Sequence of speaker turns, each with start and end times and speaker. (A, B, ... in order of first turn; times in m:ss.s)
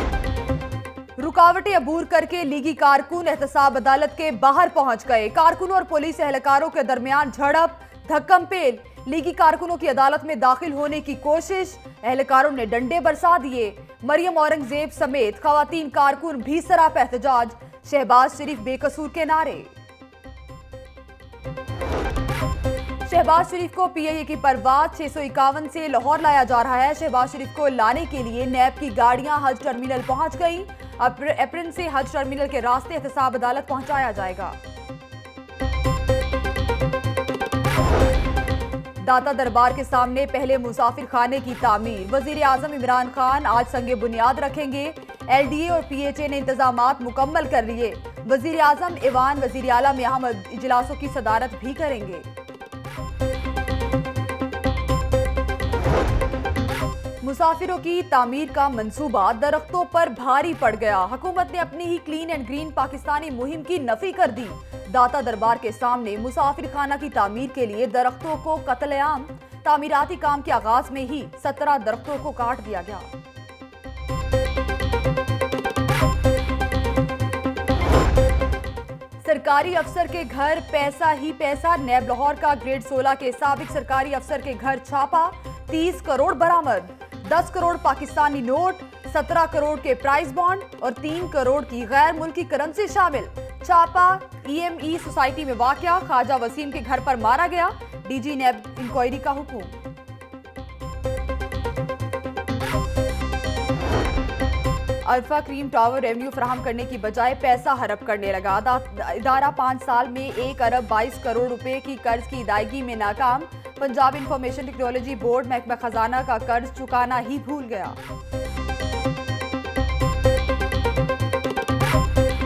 0:01.2-0:19.7 A
0:23.0-0:34.6 A
0:39.0-0:52.3 A
0:57.2-1:13.1 A
1:19.2-1:39.8 A
1:45.0-1:58.0 A